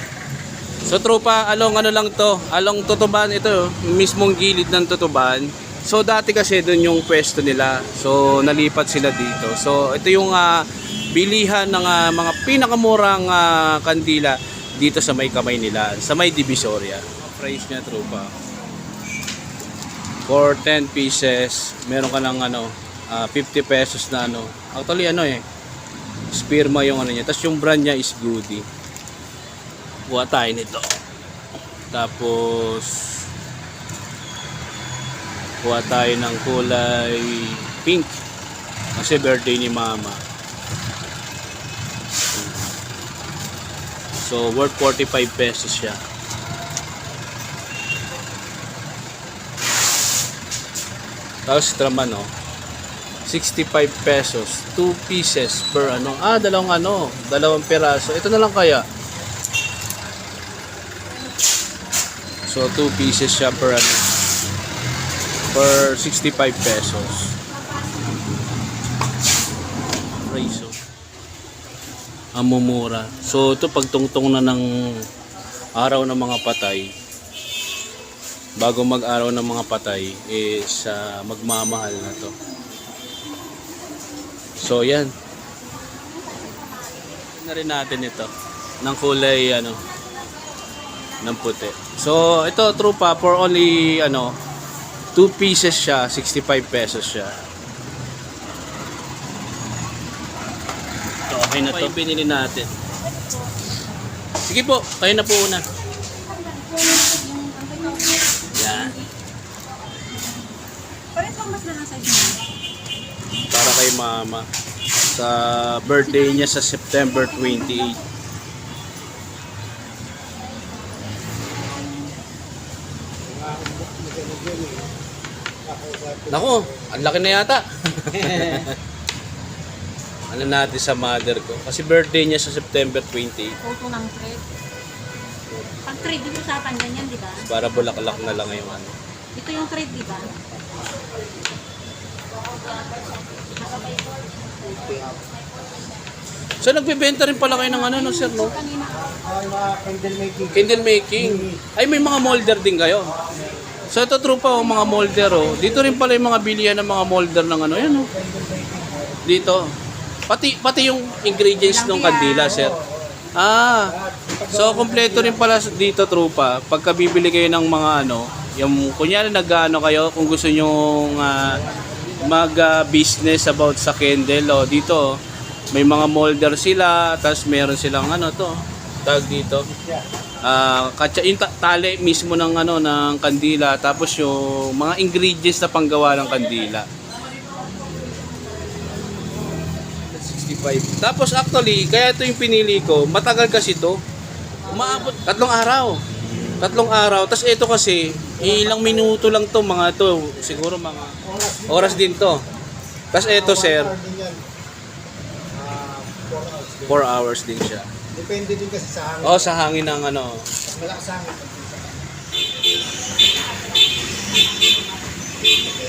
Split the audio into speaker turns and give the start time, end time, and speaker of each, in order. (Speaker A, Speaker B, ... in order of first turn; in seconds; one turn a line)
Speaker A: 0.9-18.3
Speaker A: 20.3-25.4
Speaker A: 26.3-28.6
Speaker A: 30.1-30.9
Speaker A: 31.9-33.0
Speaker A: 35.6-38.2
Speaker A: 39.0-40.2
Speaker A: 42.3-42.7
Speaker A: 44.2-46.0
Speaker A: 51.5-52.3
Speaker A: 53.3-58.8
Speaker A: 62.5-64.0
Speaker A: 65.5-67.4
Speaker A: 70.2-70.8
Speaker A: 72.4-74.7
Speaker A: 75.8-76.9
Speaker A: 78.6-82.3
Speaker B: 82.7-84.2
Speaker A: 84.6-85.1
Speaker B: 85.7-87.3
Speaker A: 87.3-88.3
Speaker A: 88.8-89.8
Speaker A: 91.2-94.3
Speaker A: 95.2-97.4
Speaker A: 101.3-102.7
Speaker A: 104.5-105.7
Speaker B: 106.0-109.1
Speaker A: 108.5-109.0
Speaker B: 111.1-112.5
Speaker A: 113.5-114.5
Speaker A: 115.1-118.0
Speaker B: 116.0-118.0
Speaker C: 123.2-124.9
Speaker C: 125.7-127.3
Speaker A: 126.3-128.8
Speaker C: 128.1-128.7
Speaker A: 130.3-133.6
Speaker B: 133.6-134.4
Speaker B: 135.8-138.6
Speaker A: 137.4-138.9
Speaker B: 139.3-140.4
Speaker B: 142.5-145.8
Speaker C: 144.7-145.3
Speaker A: 146.6-148.6
Speaker B: 147.4-149.2
Speaker C: 148.4-151.7
Speaker A: 150.5-153.1
Speaker C: 153.1-153.8
Speaker A: 153.9-158.1
Speaker B: 154.8-155.5
Speaker C: 158.0-159.4
Speaker A: 159.2-159.7
Speaker A: 160.3-162.8
Speaker B: 161.6-162.7
Speaker C: 162.4-163.3
Speaker A: 163.4-163.9
Speaker C: 163.9-165.7
Speaker A: 164.5-171.6
Speaker C: 171.4-172.4
Speaker A: 172.2-175.2
Speaker A: 175.7-179.7
Speaker C: 179.7-180.0
Speaker A: 180.4-186.9
Speaker A: 190.1-194.0
Speaker A: 194.7-196.0
Speaker C: 194.7-195.1
Speaker A: 196.6-202.4
Speaker C: 198.4-199.3
Speaker C: 201.1-202.2
Speaker A: 203.1-203.9
Speaker C: 203.1-204.4
Speaker C: 205.5-207.0
Speaker A: 206.9-207.9
Speaker C: 208.1-209.6
Speaker A: 209.2-210.5
Speaker C: 210.6-212.1
Speaker B: 214.4-214.8